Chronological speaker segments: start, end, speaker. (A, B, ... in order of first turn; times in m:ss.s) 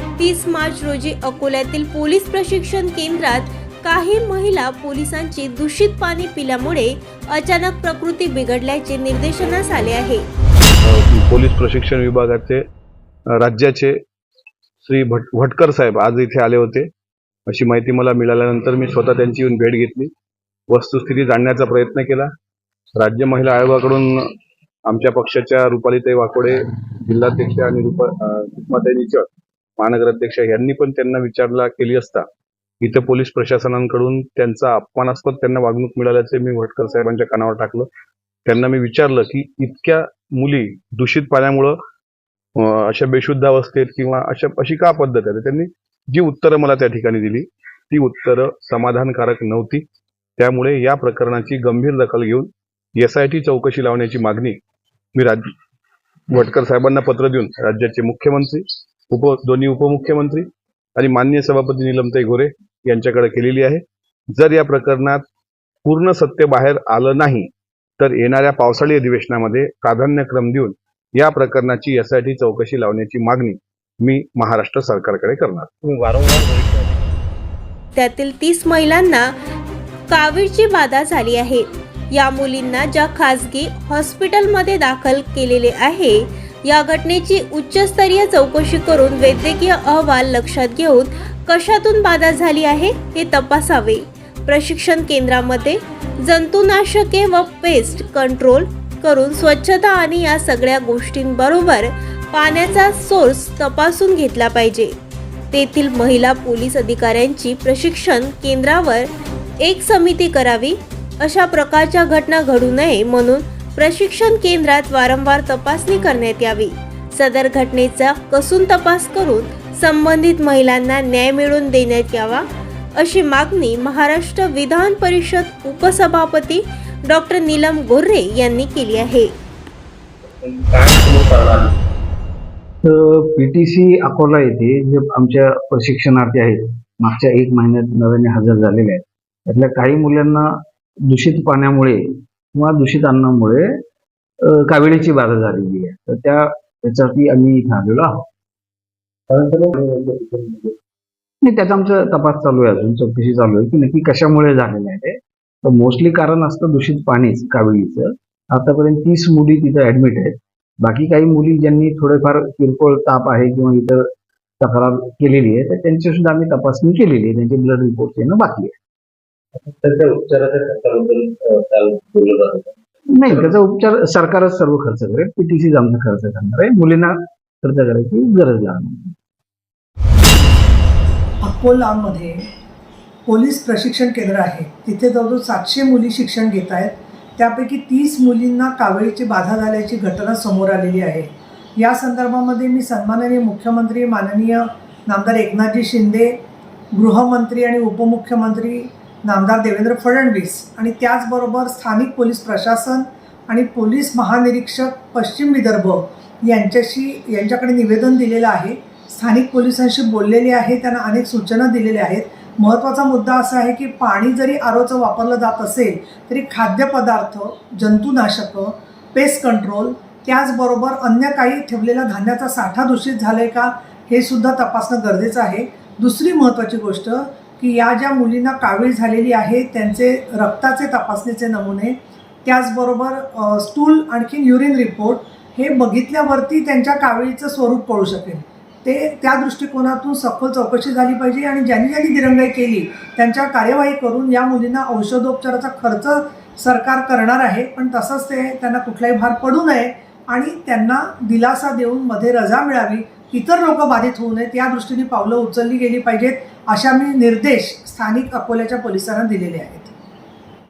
0:00.2-0:10.2 A
0:10.8-0:12.6 B
0:13.4-0:14.0 B
0:14.8-0:16.9 B
0:17.5-0:20.1 B
0:20.7-0:22.3 B
0:23.0-0:24.3 B
0:24.9-0:29.3 B
0:29.8-0:32.2 B
0:32.8-0:37.9 B
0:38.4-0:41.8 B
0:42.6-0:49.8 B
0:50.4-0:54.6 B
0:55.1-0:55.5 B
0:56.3-1:00.4 B
1:01.0-1:03.8 B
1:04.3-1:05.2 B
1:05.8-1:15.7 B
1:15.8-1:17.0 C
1:18.0-1:19.3 A
1:20.1-1:44.9 A
1:45.5-1:49.1 A
1:49.6-2:02.4 A
2:03.0-2:09.3 A
2:10.2-2:11.8 C
2:12.8-2:23.7 D
2:24.4-2:28.2 D
2:29.3-2:30.8 C
2:31.4-2:44.1 D
2:44.6-2:48.8 D
2:49.5-2:53.5 C
2:53.1-2:59.1 D
3:01.4-3:02.5 E
3:03.2-3:16.4 E
3:16.9-4:19.9 E